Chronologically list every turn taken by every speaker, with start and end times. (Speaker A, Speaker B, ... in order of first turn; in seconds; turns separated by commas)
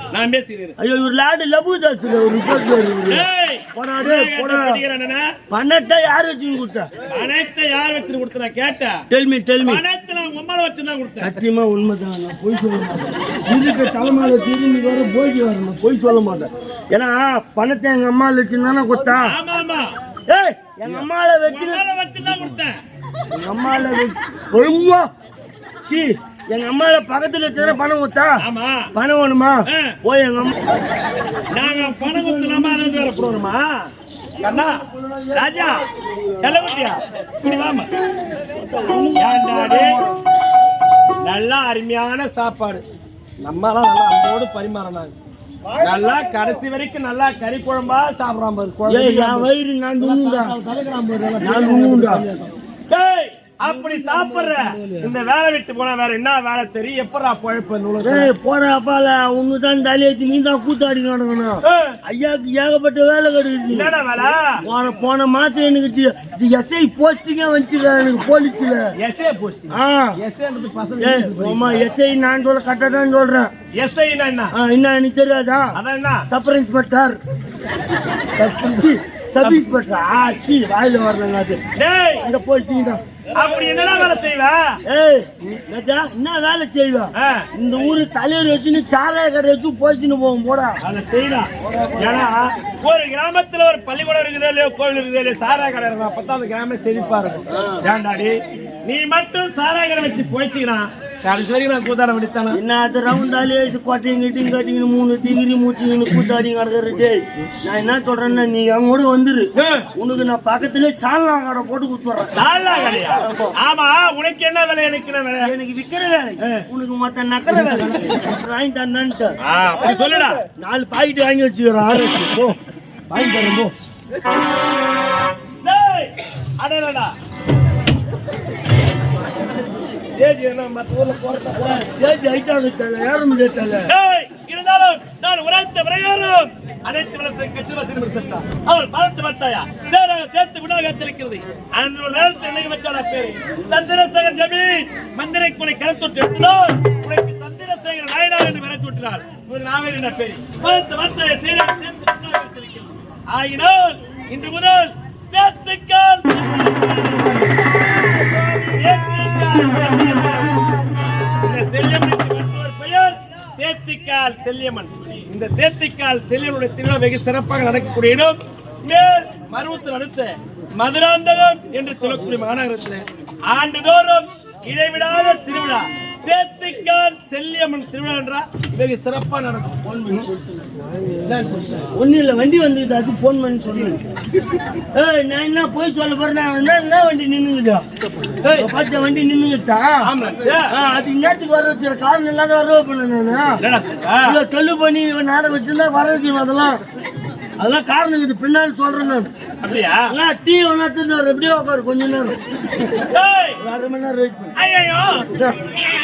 Speaker A: 0.1-0.7, Speaker B: 0.8-3.2, Speaker A: 3.1-5.3, Speaker B: 3.7-4.8, Speaker B: 5.5-6.9, Speaker A: 7.1-9.0, Speaker B: 9.1-9.8, Speaker A: 9.6-11.4, Speaker B: 11.2-19.3, Speaker A: 19.2-19.9, Speaker B: 20.3-21.8, Speaker A: 20.9-22.8, Speaker B: 23.3-25.1, Speaker B: 25.8-28.4, Speaker A: 28.4-28.9, Speaker B: 28.9-30.6, Speaker A: 29.7-29.9, Speaker A: 31.5-33.9, Speaker B: 31.6-32.9, Speaker B: 34.4-36.9, Speaker A: 34.4-34.8, Speaker A: 35.3-35.8, Speaker A: 36.4-37.9, Speaker B: 38.4-40.2, Speaker A: 39.1-40.0, Speaker A: 41.2-42.8, Speaker A: 43.4-45.1, Speaker A: 45.8-49.5, Speaker B: 48.9-50.5, Speaker A: 50.0-58.3, Speaker B: 51.4-52.2, Speaker B: 54.5-55.0, Speaker B: 58.0-63.9, Speaker A: 61.6-62.0, Speaker A: 63.7-64.5, Speaker B: 64.6-68.9, Speaker A: 69.0-71.8, Speaker B: 69.7-70.2, Speaker B: 71.0-73.5, Speaker A: 73.8-74.5, Speaker B: 74.5-75.7, Speaker A: 75.8-76.2, Speaker B: 76.3-77.2, Speaker B: 78.3-81.6, Speaker A: 81.8-82.2, Speaker B: 82.2-83.0, Speaker A: 83.3-84.8, Speaker B: 84.9-90.8, Speaker A: 87.2-87.5, Speaker A: 90.8-102.6, Speaker B: 91.6-92.3, Speaker B: 97.5-97.8, Speaker B: 102.5-113.5, Speaker A: 109.5-109.9, Speaker A: 112.3-115.5, Speaker B: 115.4-119.3, Speaker A: 119.4-120.4, Speaker B: 120.5-122.6, Speaker B: 123.1-123.7, Speaker A: 125.6-127.1, Speaker A: 130.1-131.8, Speaker B: 131.6-133.9, Speaker A: 133.9-160.6, Speaker A: 161.4-179.8, Speaker B: 179.8-180.3, Speaker A: 181.2-181.8, Speaker B: 181.9-184.0, Speaker B: 184.9-187.8, Speaker A: 188.4-188.7, Speaker B: 188.5-190.1, Speaker A: 190.0-190.7, Speaker B: 190.7-193.6, Speaker A: 193.6-194.3, Speaker B: 194.2-196.8, Speaker B: 197.6-199.3, Speaker A: 199.6-200.1, Speaker B: 200.1-202.3, Speaker A: 203.1-203.6, Speaker B: 203.6-204.5, Speaker A: 204.6-205.3